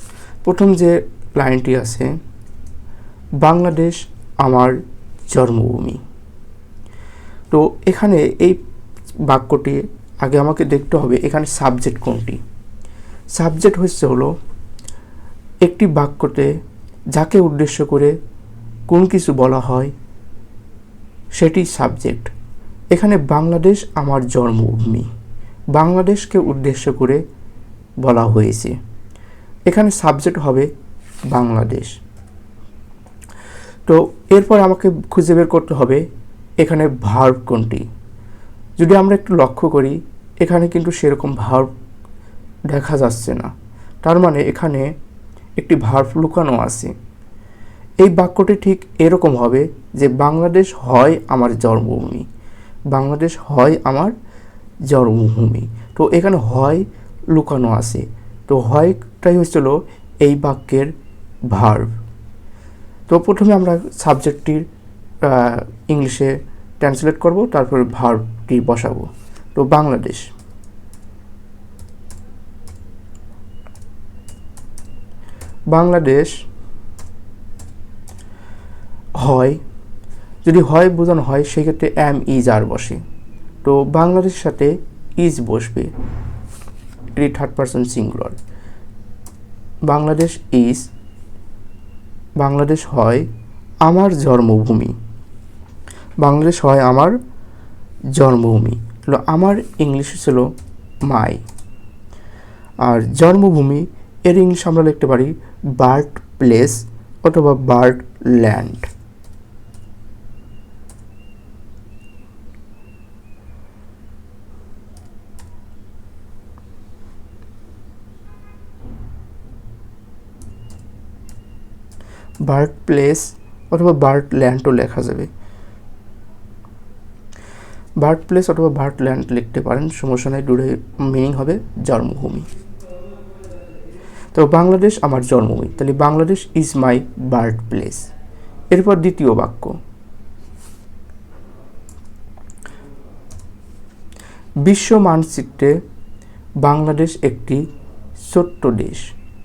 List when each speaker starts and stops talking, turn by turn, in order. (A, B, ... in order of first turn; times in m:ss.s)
0:00.4-0:02.1 A
0:03.4-0:04.8 A
0:05.3-0:06.0 A
0:07.5-0:08.6 A
0:09.2-0:12.4 A
0:13.3-0:14.3 A
0:15.6-0:16.5 A
0:17.1-0:18.1 A
0:18.9-0:19.9 A
0:21.4-0:22.3 A
0:22.9-0:25.1 A
0:25.7-0:27.2 A
0:28.0-0:28.8 A
0:29.7-0:30.7 A
0:31.3-0:32.0 A
0:33.8-0:36.0 A
0:36.6-0:37.8 A
0:38.8-0:41.7 A
0:42.7-0:43.5 A
0:44.0-0:44.9 A
0:45.6-0:46.9 A
0:48.0-0:52.2 A
0:52.9-0:54.1 A
0:54.9-1:00.9 A
1:01.5-1:02.0 A
1:03.1-1:04.6 A
1:05.2-1:10.3 A
1:15.7-1:16.4 A
1:19.2-1:19.6 A
1:20.4-1:23.0 A
1:23.6-1:25.9 A
1:27.1-1:28.4 A
1:29.8-1:30.9 A
1:32.4-1:33.3 A
1:33.8-1:35.0 A
1:36.2-1:37.2 A
1:38.1-1:40.5 A
1:41.0-1:41.4 A
1:42.8-1:48.9 A
2:02.4-2:05.3 A
2:08.0-2:12.5 A
2:14.3-2:18.1 A
2:18.7-2:19.8 A
2:24.6-2:25.8 A
2:26.6-2:27.7 A
2:28.2-2:29.1 A